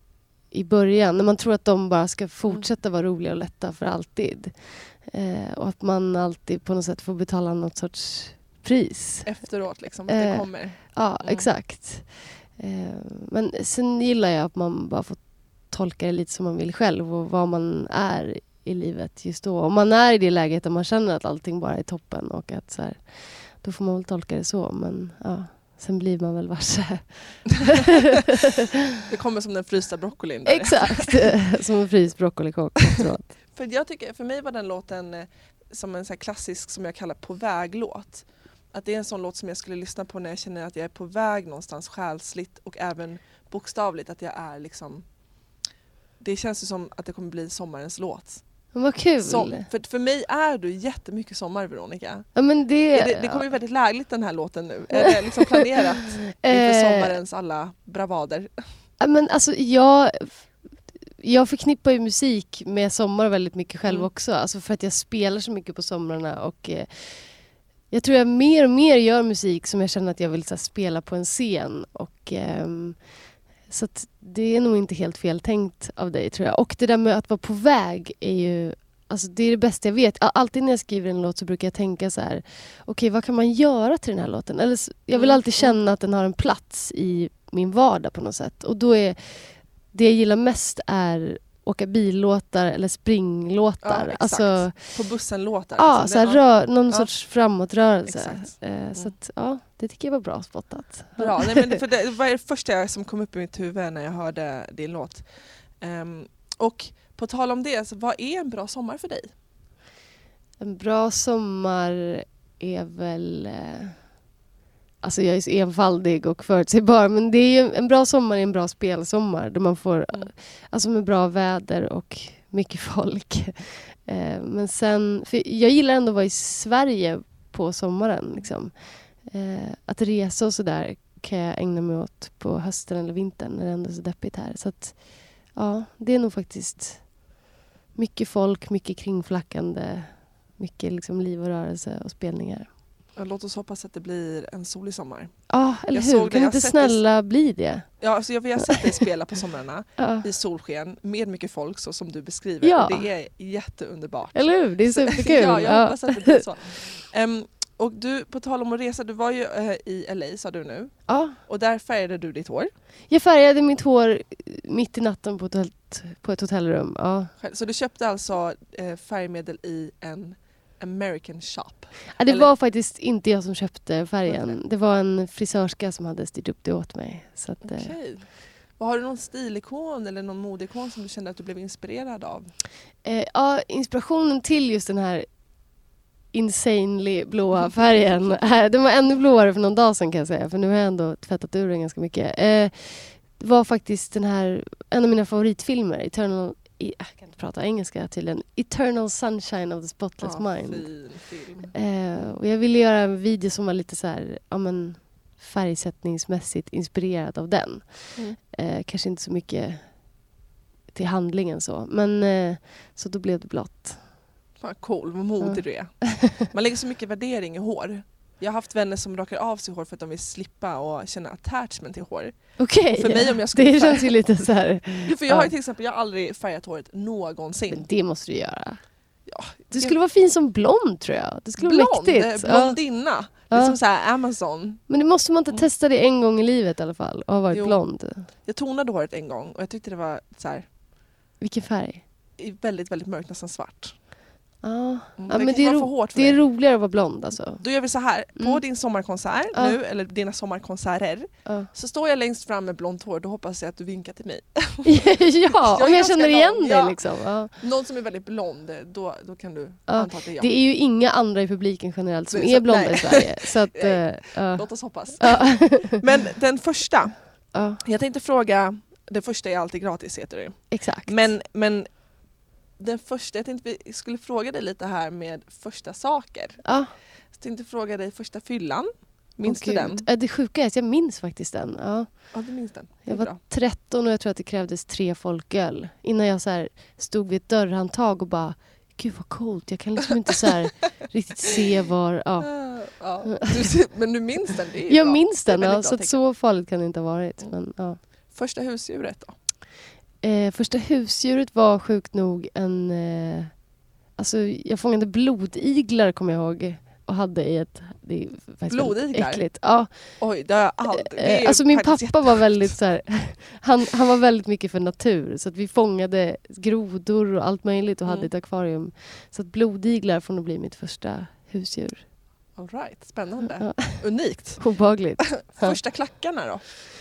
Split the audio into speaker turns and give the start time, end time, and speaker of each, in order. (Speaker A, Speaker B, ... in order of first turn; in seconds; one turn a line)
Speaker A: 0.5-9.3
Speaker B: 9.2-11.5
Speaker A: 10.1-29.0
Speaker B: 29.1-31.4
Speaker A: 30.4-33.3
Speaker B: 33.5-45.0
Speaker B: 46.2-48.4
Speaker A: 48.7-49.6
Speaker B: 49.2-52.3
Speaker A: 52.3-53.5
Speaker B: 52.9-58.5
Speaker A: 55.0-55.6
Speaker A: 56.3-57.1
Speaker A: 59.0-60.4
Speaker A: 61.1-67.2
Speaker A: 67.9-73.0
Speaker A: 73.7-95.0
Speaker B: 85.1-85.8
Speaker B: 93.8-97.1
Speaker A: 95.8-101.8
Speaker B: 98.1-99.1
Speaker B: 101.2-105.2
Speaker B: 105.8-109.3
Speaker A: 110.6-114.0
Speaker A: 115.0-135.0
Speaker A: 135.5-137.0
Speaker A: 137.9-142.7
Speaker B: 143.2-147.0
Speaker A: 145.5-147.9
Speaker B: 148.0-162.7
Speaker A: 150.0-150.3
Speaker A: 152.6-153.1
Speaker A: 154.3-156.4
Speaker A: 161.1-161.4
Speaker A: 163.1-167.3
Speaker B: 167.4-172.5
Speaker A: 172.2-177.9
Speaker B: 174.2-174.6
Speaker B: 177.6-178.3
Speaker B: 178.8-182.5
Speaker A: 183.0-185.3
Speaker A: 186.3-200.9
Speaker B: 200.2-202.3
Speaker A: 201.7-209.9
Speaker A: 210.9-214.1
Speaker B: 214.6-222.3
Speaker A: 215.5-216.4
Speaker A: 222.6-225.5
Speaker B: 222.9-224.1
Speaker B: 225.0-227.8
Speaker A: 227.7-228.8
Speaker B: 229.3-229.9
Speaker A: 229.7-232.8
Speaker B: 231.6-234.8
Speaker A: 233.5-233.8
Speaker A: 234.9-238.3
Speaker B: 237.5-237.8
Speaker B: 238.4-240.6
Speaker A: 241.4-242.0
Speaker B: 242.4-243.9
Speaker A: 244.6-247.6
Speaker B: 245.2-246.4
Speaker B: 247.6-257.0
Speaker A: 254.8-257.6
Speaker B: 257.5-260.5
Speaker A: 259.9-266.0
Speaker B: 262.3-267.1
Speaker A: 267.5-267.8
Speaker B: 267.8-271.9
Speaker A: 270.7-271.3
Speaker B: 272.8-276.6
Speaker A: 276.6-276.9
Speaker B: 277.3-280.0
Speaker A: 279.4-282.3
Speaker B: 282.3-283.4
Speaker A: 283.1-292.6
Speaker B: 292.4-296.1
Speaker A: 294.9-298.0
Speaker B: 298.3-299.3
Speaker A: 300.2-303.5
Speaker A: 304.1-310.1
Speaker B: 308.7-309.5
Speaker B: 310.2-312.7
Speaker A: 311.0-322.0
Speaker B: 322.6-324.6
Speaker A: 323.6-325.8
Speaker B: 325.3-326.6